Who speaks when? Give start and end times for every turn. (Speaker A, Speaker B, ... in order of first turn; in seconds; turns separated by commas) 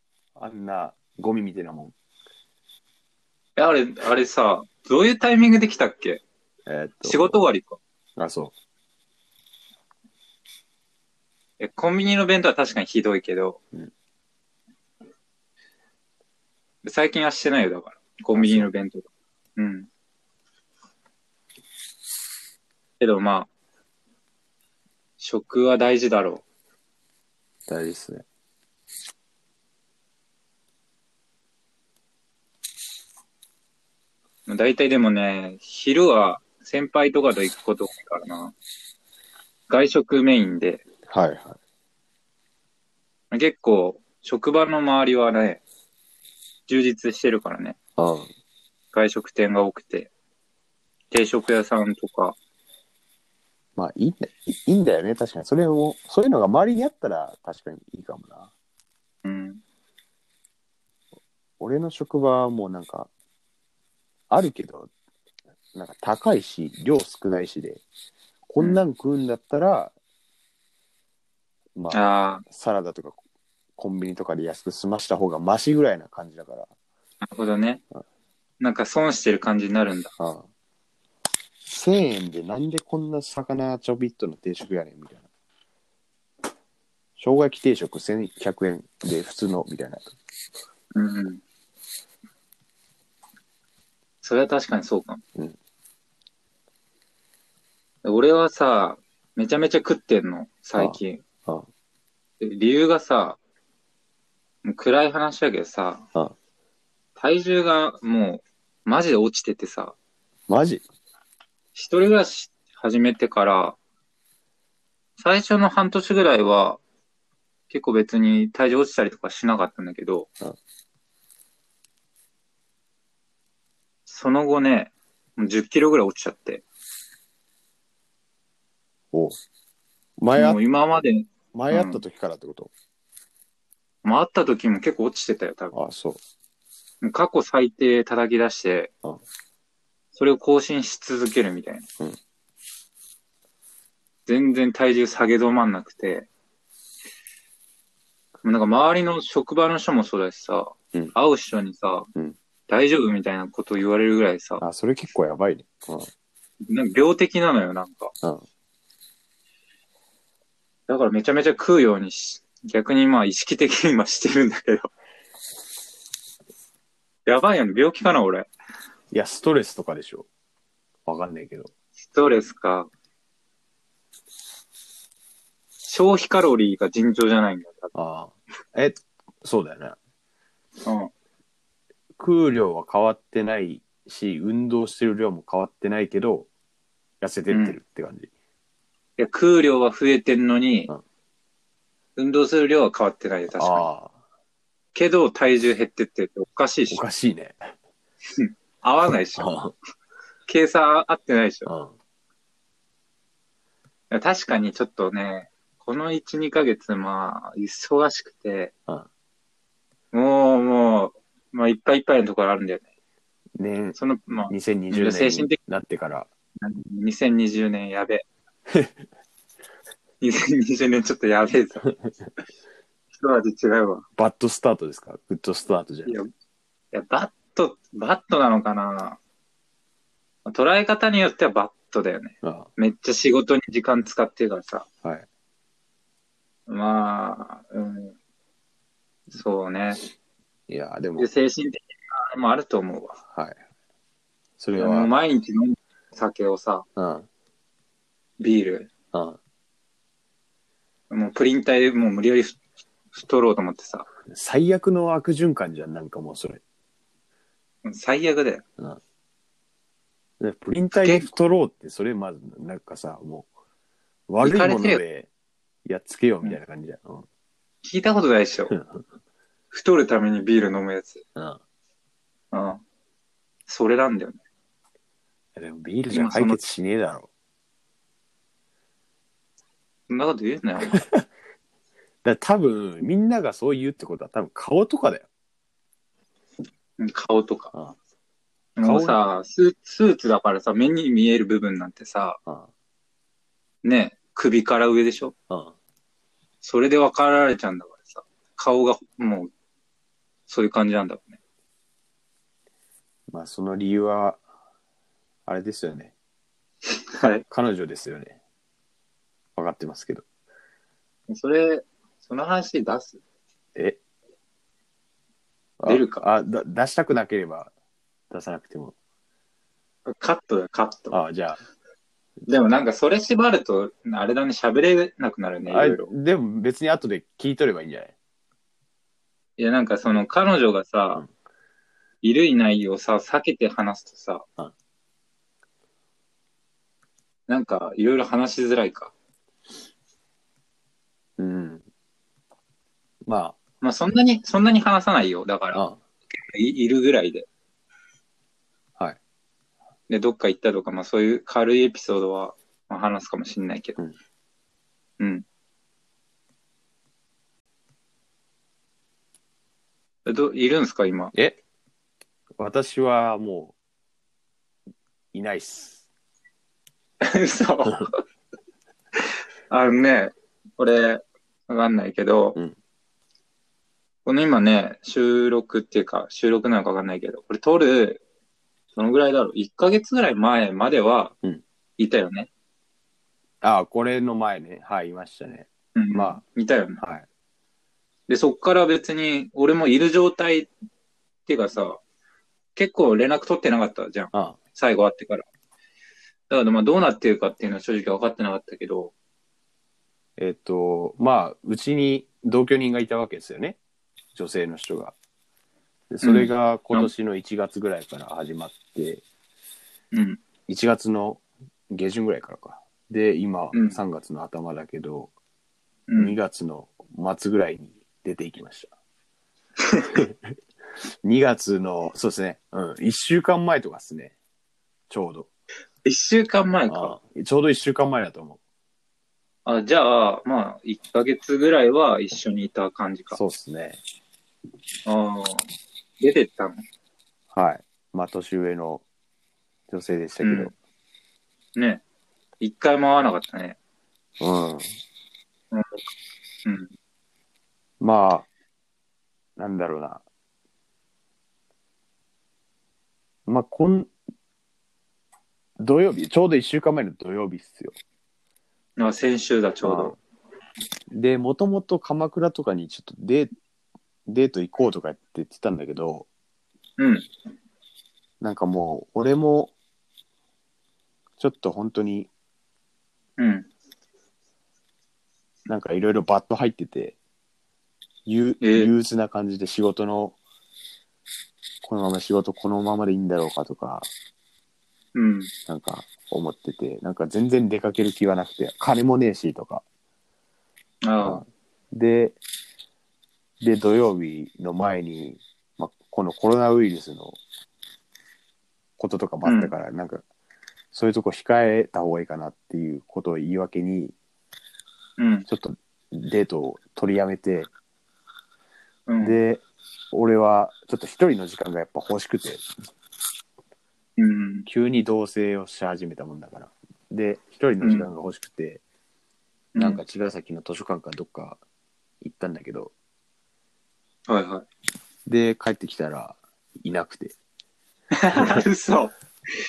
Speaker A: 0.3-1.9, Speaker B: 3.6-6.2, Speaker A: 6.7-7.4, Speaker B: 7.0-7.8, Speaker A: 8.2-8.5, Speaker B: 11.6-13.6, Speaker B: 16.8-19.9, Speaker A: 18.3-18.7, Speaker B: 23.0-23.5, Speaker B: 25.2-26.4, Speaker A: 27.7-28.2, Speaker B: 34.5-38.5, Speaker B: 39.7-40.8, Speaker A: 41.1-41.5, Speaker B: 43.3-45.6, Speaker B: 46.7-47.8, Speaker A: 48.0-48.3, Speaker B: 48.9-50.1, Speaker B: 51.1-52.4, Speaker A: 53.8-58.5, Speaker B: 59.2-59.6, Speaker A: 61.6-63.1, Speaker A: 64.3-64.9, Speaker A: 65.7-67.8, Speaker A: 68.5-69.9, Speaker A: 71.7-73.2, Speaker B: 71.9-72.4, Speaker A: 73.8-76.7, Speaker B: 77.2-77.8, Speaker B: 78.6-80.1, Speaker A: 80.2-80.5, Speaker A: 81.7-85.2, Speaker A: 87.2-90.1, Speaker B: 90.9-91.4, Speaker B: 94.2-95.2, Speaker B: 98.0-101.2, Speaker A: 100.8-101.7, Speaker B: 102.4-103.4, Speaker B: 104.6-106.0, Speaker B: 107.2-109.9, Speaker A: 110.5-110.8, Speaker B: 111.7-113.8, Speaker B: 115.2-116.8, Speaker B: 117.7-120.3, Speaker B: 124.1-126.6, Speaker A: 129.1-129.4, Speaker A: 130.2-130.6, Speaker B: 130.3-132.0, Speaker A: 131.5-132.7, Speaker B: 134.0-135.7, Speaker A: 135.7-136.2, Speaker B: 137.0-138.9, Speaker B: 140.1-141.9, Speaker B: 144.3-146.3, Speaker B: 148.4-152.1, Speaker B: 152.7-154.6, Speaker A: 154.6-156.1, Speaker B: 156.7-158.1, Speaker B: 160.9-164.9, Speaker B: 167.2-168.5, Speaker A: 169.1-170.3, Speaker A: 171.1-171.7, Speaker B: 172.1-172.9, Speaker B: 175.8-177.9, Speaker A: 177.9-180.0, Speaker B: 180.8-181.1, Speaker A: 182.2-186.5, Speaker A: 187.2-188.3, Speaker B: 187.5-187.8, Speaker B: 189.2-190.9, Speaker B: 192.2-193.9, Speaker A: 193.6-194.1, Speaker B: 194.9-197.0, Speaker A: 196.9-197.7, Speaker B: 198.3-199.5, Speaker A: 199.3-199.7, Speaker B: 200.5-201.7, Speaker A: 201.7-201.9, Speaker B: 204.1-208.7, Speaker B: 210.1-212.8, Speaker A: 213.6-214.0, Speaker B: 213.9-215.6, Speaker A: 214.5-216.3, Speaker B: 216.6-218.2, Speaker B: 220.2-221.9, Speaker B: 223.2-224.0, Speaker A: 224.2-226.2, Speaker B: 226.9-229.2, Speaker B: 230.4-234.8, Speaker A: 232.4-232.7, Speaker B: 236.7-238.1, Speaker B: 239.3-240.0, Speaker A: 240.7-241.3, Speaker B: 241.2-243.2, Speaker A: 243.3-243.6, Speaker A: 244.6-245.1, Speaker B: 244.8-246.8, Speaker A: 246.9-247.3, Speaker B: 248.4-248.9, Speaker A: 249.1-249.4, Speaker B: 251.1-252.6, Speaker B: 253.1-254.1, Speaker A: 254.2-256.6, Speaker B: 257.8-258.6, Speaker A: 260.4-263.5, Speaker B: 261.0-261.3, Speaker A: 264.3-265.3, Speaker B: 264.4-265.0, Speaker A: 265.9-267.2, Speaker B: 267.8-268.7, Speaker A: 268.7-269.0, Speaker B: 269.7-271.2, Speaker B: 272.5-272.8, Speaker B: 273.7-274.4, Speaker A: 275.6-277.3, Speaker B: 276.1-276.6, Speaker B: 280.1-281.0, Speaker A: 280.9-281.3, Speaker A: 282.2-285.3, Speaker B: 287.0-287.7, Speaker B: 288.8-292.4, Speaker A: 288.8-289.2, Speaker B: 293.8-295.3, Speaker B: 296.6-299.5, Speaker B: 300.5-301.4, Speaker A: 303.3-304.4, Speaker A: 305.5-306.1, Speaker B: 307.1-307.4, Speaker A: 307.5-308.4, Speaker A: 309.6-310.2, Speaker B: 311.3-313.2, Speaker A: 315.8-317.7, Speaker B: 315.9-316.2, Speaker A: 318.3-318.9, Speaker B: 320.1-321.2, Speaker A: 321.1-321.6, Speaker B: 322.5-326.1, Speaker A: 325.7-328.1, Speaker B: 329.6-331.2, Speaker B: 332.2-334.4, Speaker B: 337.5-339.1, Speaker A: 341.4-341.8, Speaker A: 343.2-343.6, Speaker B: 343.8-347.5, Speaker A: 345.7-346.0, Speaker B: 350.1-354.0, Speaker B: 355.2-355.4, Speaker B: 360.2-361.3, Speaker A: 362.6-363.7, Speaker A: 365.3-366.0, Speaker B: 367.2-368.2, Speaker B: 369.7-372.6, Speaker B: 374.2-378.2, Speaker B: 378.9-381.3, Speaker B: 382.0-382.5, Speaker A: 383.6-386.4, Speaker B: 385.9-387.0, Speaker A: 387.0-387.2, Speaker B: 388.3-390.7, Speaker B: 391.4-392.0, Speaker B: 392.8-395.4, Speaker A: 394.3-394.6, Speaker B: 396.5-399.1, Speaker A: 400.4-403.8, Speaker A: 404.3-405.1, Speaker A: 406.1-409.2, Speaker B: 406.2-407.1, Speaker B: 410.1-410.4, Speaker A: 410.7-415.3, Speaker B: 413.7-414.0, Speaker B: 416.1-416.4, Speaker A: 416.2-418.9, Speaker B: 419.9-420.1, Speaker A: 421.2-424.3, Speaker A: 425.1-425.5, Speaker B: 426.0-427.2, Speaker A: 426.9-428.6, Speaker B: 429.6-433.4, Speaker A: 433.3-434.0, Speaker B: 435.1-435.7, Speaker B: 436.2-436.8, Speaker A: 437.5-439.0, Speaker A: 439.9-440.7, Speaker B: 440.4-440.7, Speaker B: 441.8-442.0, Speaker B: 442.6-443.8, Speaker A: 444.4-444.9, Speaker B: 445.7-446.0, Speaker B: 446.6-446.9, Speaker A: 448.0-448.5, Speaker A: 449.6-450.2, Speaker A: 453.4-454.1, Speaker A: 455.8-458.0, Speaker B: 459.0-460.2, Speaker A: 459.8-460.2, Speaker A: 461.1-463.5, Speaker A: 464.3-466.3, Speaker B: 467.0-467.3, Speaker A: 468.4-469.7, Speaker A: 471.4-472.3, Speaker B: 473.4-473.7, Speaker A: 475.7-477.1, Speaker A: 478.2-480.4, Speaker B: 478.6-478.9, Speaker A: 481.8-484.1, Speaker B: 485.1-485.5, Speaker A: 485.7-489.8, Speaker B: 491.0-491.4, Speaker A: 491.2-492.4, Speaker A: 493.6-497.4, Speaker A: 499.0-500.2, Speaker B: 499.4-499.7, Speaker A: 500.9-504.1, Speaker B: 505.2-505.5, Speaker A: 505.5-507.7, Speaker B: 509.1-509.4, Speaker A: 509.2-512.7, Speaker B: 514.2-514.7, Speaker A: 514.6-518.8, Speaker B: 517.8-518.1, Speaker B: 519.7-520.0, Speaker A: 519.8-521.6, Speaker A: 522.2-522.9, Speaker B: 524.3-524.6, Speaker A: 525.2-527.4, Speaker B: 528.1-529.1, Speaker A: 528.3-528.6